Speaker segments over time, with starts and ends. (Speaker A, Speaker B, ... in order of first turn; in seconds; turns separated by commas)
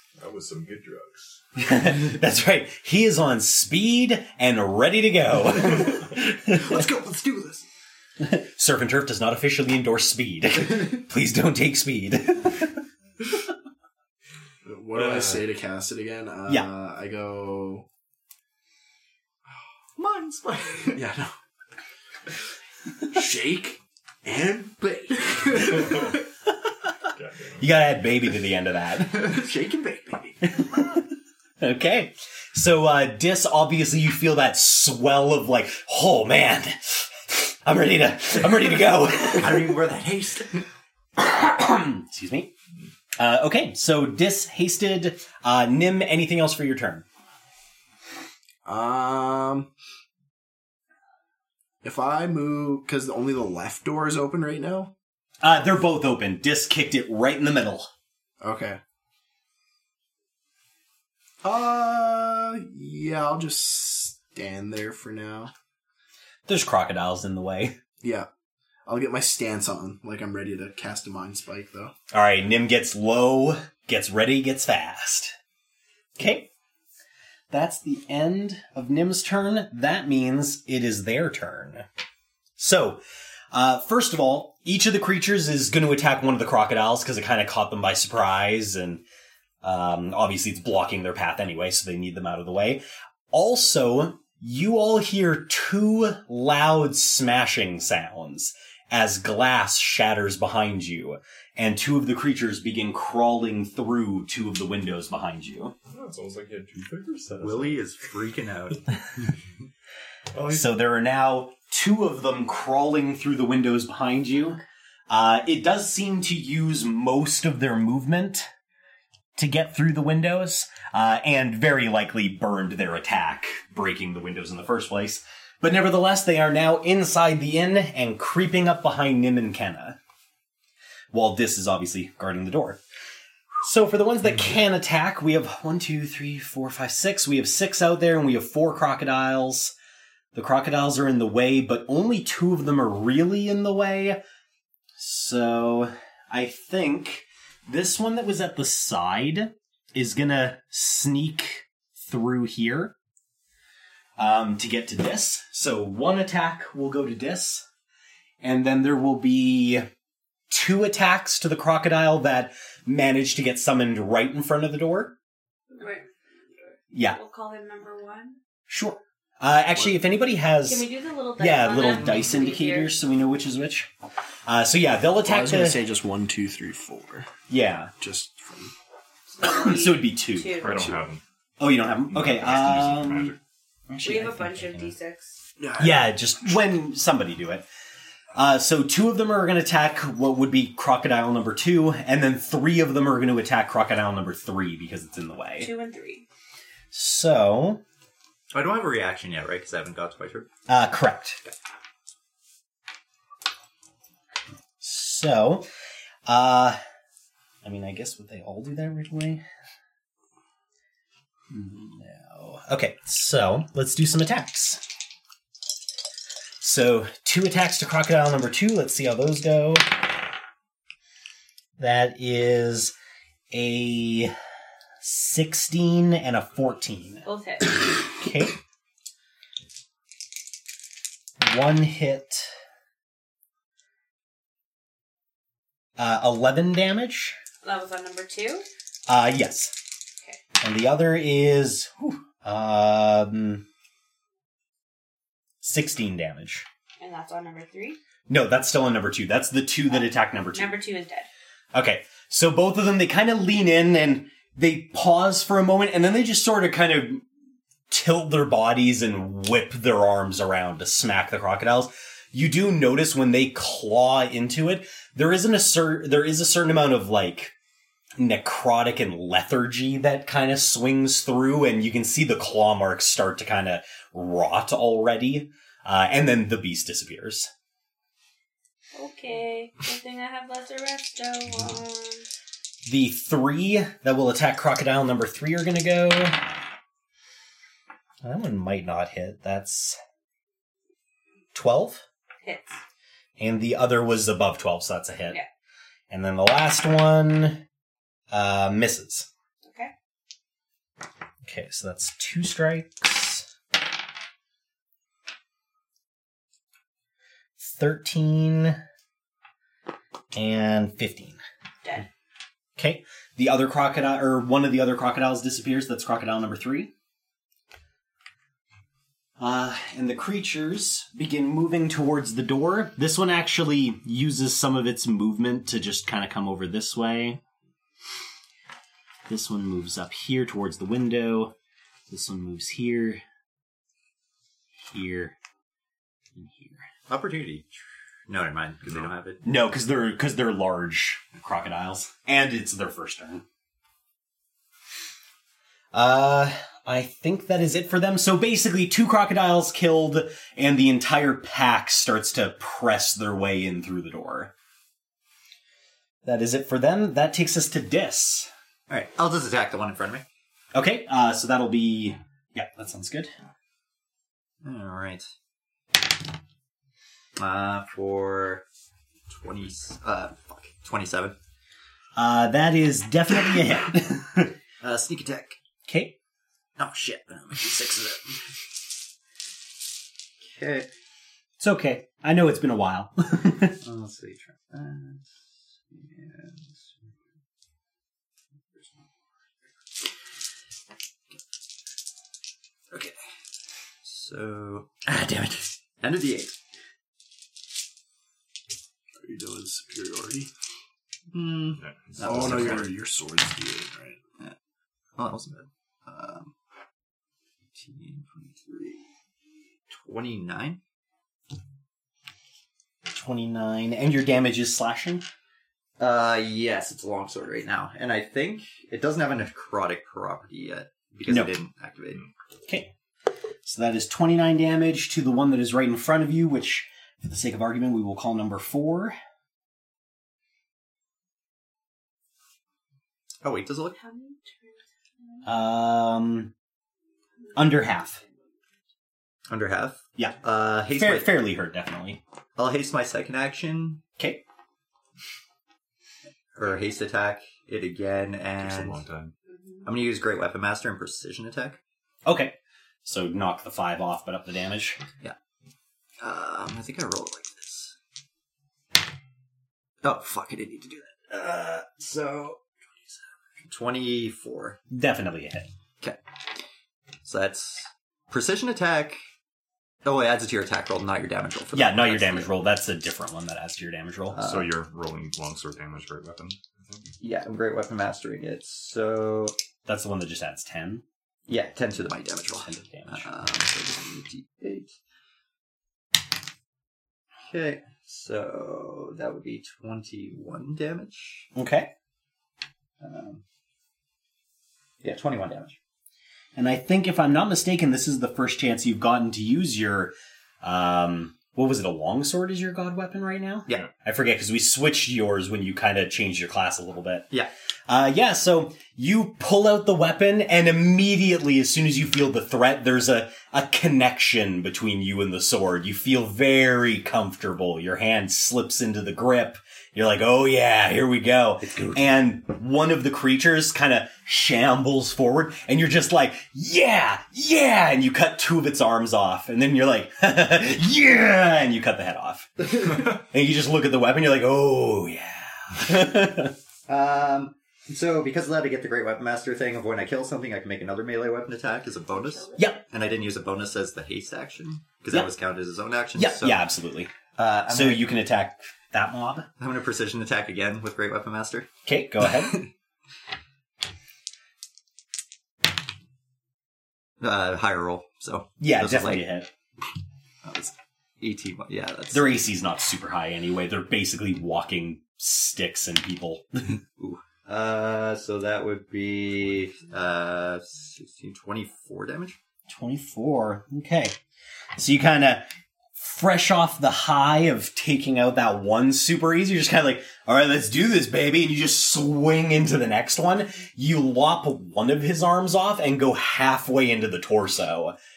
Speaker A: 0.2-1.4, Speaker B: 1.6-6.8, Speaker C: 6.4-7.7, Speaker B: 8.2-12.8, Speaker D: 14.6-17.9, Speaker A: 15.0-15.5, Speaker C: 20.0-21.0, Speaker D: 20.9-21.3, Speaker D: 23.1-26.0, Speaker C: 24.9-26.1, Speaker A: 25.8-26.1, Speaker A: 27.1-27.7, Speaker B: 27.6-29.4, Speaker C: 29.2-30.3, Speaker B: 30.5-31.1, Speaker B: 31.6-39.8, Speaker C: 39.3-40.7, Speaker B: 41.2-42.5, Speaker B: 43.2-47.0, Speaker D: 48.6-49.7, Speaker D: 51.8-54.9, Speaker B: 55.4-57.9, Speaker D: 58.4-58.8, Speaker D: 61.4-65.5, Speaker B: 66.5-67.8, Speaker D: 68.0-68.3, Speaker D: 68.9-71.9, Speaker B: 72.1-75.3, Speaker B: 76.2-76.5, Speaker B: 77.5-81.9, Speaker B: 82.6-83.0, Speaker B: 83.5-89.0, Speaker B: 89.6-105.8, Speaker A: 105.9-107.8, Speaker C: 107.4-108.9, Speaker A: 110.3-110.7, Speaker B: 110.5-118.5, Speaker B: 119.4-130.0, Speaker B: 131.1-132.8, Speaker B: 133.6-139.7, Speaker B: 140.3-144.2, Speaker B: 145.0-152.9, Speaker B: 154.2-157.6, Speaker B: 158.4-159.9, Speaker B: 160.5-165.2, Speaker E: 165.7-166.1, Speaker B: 166.9-167.2, Speaker E: 167.1-168.4, Speaker B: 168.7-170.9, Speaker E: 170.7-173.0, Speaker B: 171.4-173.9, Speaker B: 174.5-175.8, Speaker D: 175.2-177.3, Speaker B: 177.5-177.9, Speaker D: 178.0-178.7, Speaker E: 179.3-180.8, Speaker B: 179.4-180.8, Speaker A: 180.6-181.2, Speaker D: 180.7-181.0, Speaker B: 181.6-183.4, Speaker A: 182.1-183.4, Speaker B: 183.9-184.9, Speaker E: 184.0-185.4, Speaker D: 185.6-186.2, Speaker B: 185.8-187.7, Speaker B: 188.3-195.7, Speaker E: 195.6-196.3, Speaker B: 196.9-197.8, Speaker C: 198.5-200.5, Speaker B: 200.7-201.4, Speaker B: 204.8-205.7, Speaker B: 206.3-206.8, Speaker B: 207.6-209.4, Speaker B: 211.5-214.8, Speaker B: 216.6-220.1, Speaker B: 221.8-222.9, Speaker B: 223.5-224.3, Speaker B: 225.0-227.3, Speaker E: 227.2-227.8, Speaker B: 228.1-228.6, Speaker B: 231.4-232.5, Speaker B: 236.0-237.4, Speaker E: 237.6-238.7, Speaker B: 239.1-239.8, Speaker B: 240.6-243.7, Speaker B: 245.6-246.7, Speaker E: 247.0-248.0, Speaker B: 248.3-250.8, Speaker E: 250.5-251.3, Speaker B: 251.7-257.2, Speaker B: 257.9-267.5, Speaker B: 268.2-277.5, Speaker E: 278.9-282.2, Speaker B: 282.9-286.6, Speaker B: 288.2-290.0, Speaker B: 291.5-292.0, Speaker E: 292.4-292.8, Speaker B: 293.4-295.4, Speaker B: 296.1-297.6, Speaker B: 298.3-299.3, Speaker E: 299.6-299.9, Speaker B: 301.4-303.5, Speaker B: 307.6-308.8, Speaker B: 310.3-311.4, Speaker B: 312.8-316.9, Speaker B: 319.4-327.4, Speaker B: 329.3-331.5, Speaker B: 332.1-333.2, Speaker B: 334.9-335.4, Speaker B: 336.4-336.9, Speaker C: 337.1-337.7, Speaker C: 338.3-339.4, Speaker B: 339.4-343.4, Speaker B: 345.9-354.5, Speaker B: 356.2-358.5, Speaker C: 358.9-360.2, Speaker B: 360.7-363.3, Speaker C: 364.6-365.3, Speaker C: 367.4-368.6, Speaker C: 369.3-371.4, Speaker B: 372.2-374.6, Speaker C: 374.8-375.6, Speaker B: 375.9-376.2, Speaker C: 376.8-378.4, Speaker C: 380.4-380.9, Speaker B: 381.6-383.8, Speaker C: 383.8-385.3, Speaker C: 385.9-386.9, Speaker C: 388.8-389.0, Speaker C: 394.0-396.6, Speaker D: 399.2-400.5, Speaker C: 401.3-402.9, Speaker A: 401.8-402.9, Speaker D: 402.2-404.2, Speaker C: 405.2-406.5, Speaker C: 407.8-409.1, Speaker C: 409.9-410.8, Speaker B: 413.1-415.2, Speaker C: 416.0-422.2, Speaker B: 421.3-421.5, Speaker B: 423.6-429.2, Speaker C: 433.4-434.0, Speaker E: 434.0-435.4, Speaker B: 435.4-436.5, Speaker B: 437.5-438.2, Speaker C: 439.5-441.3, Speaker B: 440.2-442.2, Speaker C: 442.6-444.0, Speaker C: 446.6-449.1, Speaker A: 448.6-449.3, Speaker C: 449.8-451.8, Speaker B: 452.2-455.0, Speaker C: 456.2-457.9, Speaker C: 460.0-462.6, Speaker C: 463.6-464.8, Speaker B: 464.9-465.7, Speaker C: 467.2-469.2, Speaker C: 470.0-472.5, Speaker B: 471.7-474.4, Speaker C: 474.3-474.8, Speaker A: 474.4-477.1, Speaker C: 477.2-479.6, Speaker B: 479.9-481.0, Speaker C: 481.5-484.9, Speaker B: 482.6-483.3, Speaker C: 487.5-491.5, Speaker B: 491.6-491.9, Speaker C: 493.0-493.4, Speaker C: 495.0-495.8, Speaker B: 496.6-507.3, Speaker B: 507.9-536.5, Speaker C: 521.6-522.0, Speaker C: 536.9-546.6, Speaker E: 542.1-542.6, Speaker B: 542.6-542.8, Speaker B: 546.1-547.1, Speaker C: 547.4-548.2, Speaker B: 547.7-549.5, Speaker C: 549.6-551.7, Speaker B: 551.9-552.6, Speaker C: 557.2-559.3, Speaker B: 558.6-559.5, Speaker C: 560.4-562.3, Speaker B: 562.1-566.6, Speaker C: 567.0-572.4, Speaker B: 572.7-574.2, Speaker B: 574.8-588.0